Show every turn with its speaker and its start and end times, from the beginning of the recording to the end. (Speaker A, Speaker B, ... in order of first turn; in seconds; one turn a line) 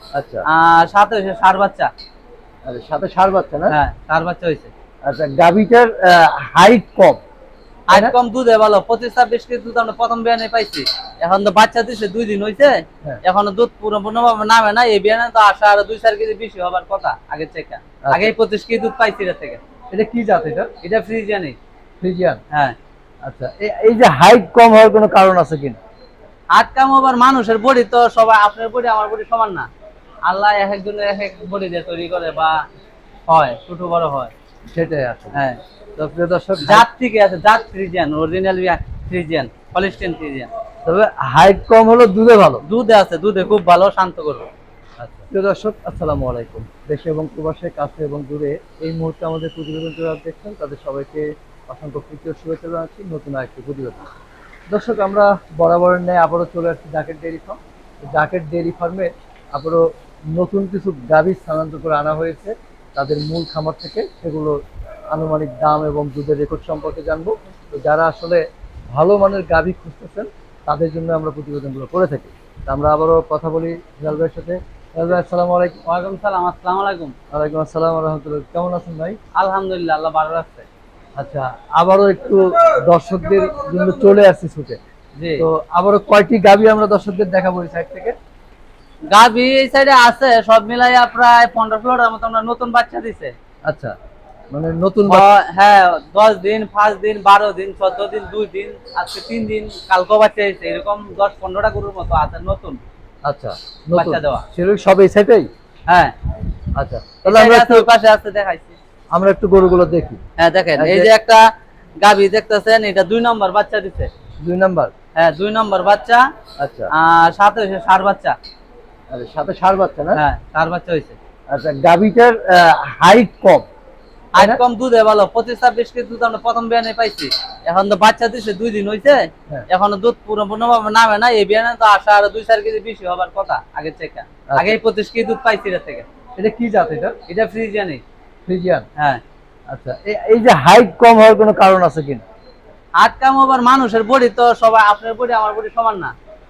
Speaker A: 0.1-0.5
Speaker B: 0.4-1.9
Speaker A: 2.6-3.8
Speaker B: 3.7-4.7
Speaker A: 5.0-7.2
Speaker B: 7.9-19.6
Speaker A: 7.9-8.1
Speaker A: 18.1-18.3
Speaker A: 19.9-20.7
Speaker B: 20.8-21.6
Speaker A: 22.0-22.4
Speaker A: 23.2-25.8
Speaker B: 26.5-29.7
Speaker B: 30.2-32.6
Speaker B: 33.3-34.3
Speaker A: 34.7-35.4
Speaker B: 35.3-35.6
Speaker A: 36.0-36.9
Speaker B: 36.6-40.5
Speaker A: 40.8-42.6
Speaker B: 42.6-44.5
Speaker A: 45.0-54.1
Speaker A: 54.7-57.6
Speaker A: 58.1-64.6
Speaker A: 65.1-75.8
Speaker B: 75.8-77.1
Speaker A: 77.3-79.2
Speaker B: 79.3-80.7
Speaker A: 81.2-84.8
Speaker B: 85.2-85.5
Speaker A: 85.4-88.2
Speaker B: 89.1-93.3
Speaker A: 93.7-93.9
Speaker A: 94.5-95.3
Speaker B: 95.1-102.8
Speaker A: 103.2-105.5
Speaker B: 104.0-104.5
Speaker B: 105.9-106.1
Speaker A: 106.7-107.9
Speaker B: 107.2-108.8
Speaker A: 109.1-110.2
Speaker B: 110.4-111.5
Speaker A: 110.7-111.1
Speaker B: 112.0-114.1
Speaker A: 114.4-114.9
Speaker B: 115.2-116.2
Speaker A: 116.6-116.9
Speaker B: 116.9-118.3
Speaker A: 119.1-120.2
Speaker B: 120.1-121.2
Speaker A: 121.5-123.7
Speaker B: 124.3-136.1
Speaker A: 134.5-134.8
Speaker A: 136.3-137.2
Speaker B: 137.3-138.0
Speaker A: 138.4-138.8
Speaker A: 139.7-142.2
Speaker B: 143.0-146.1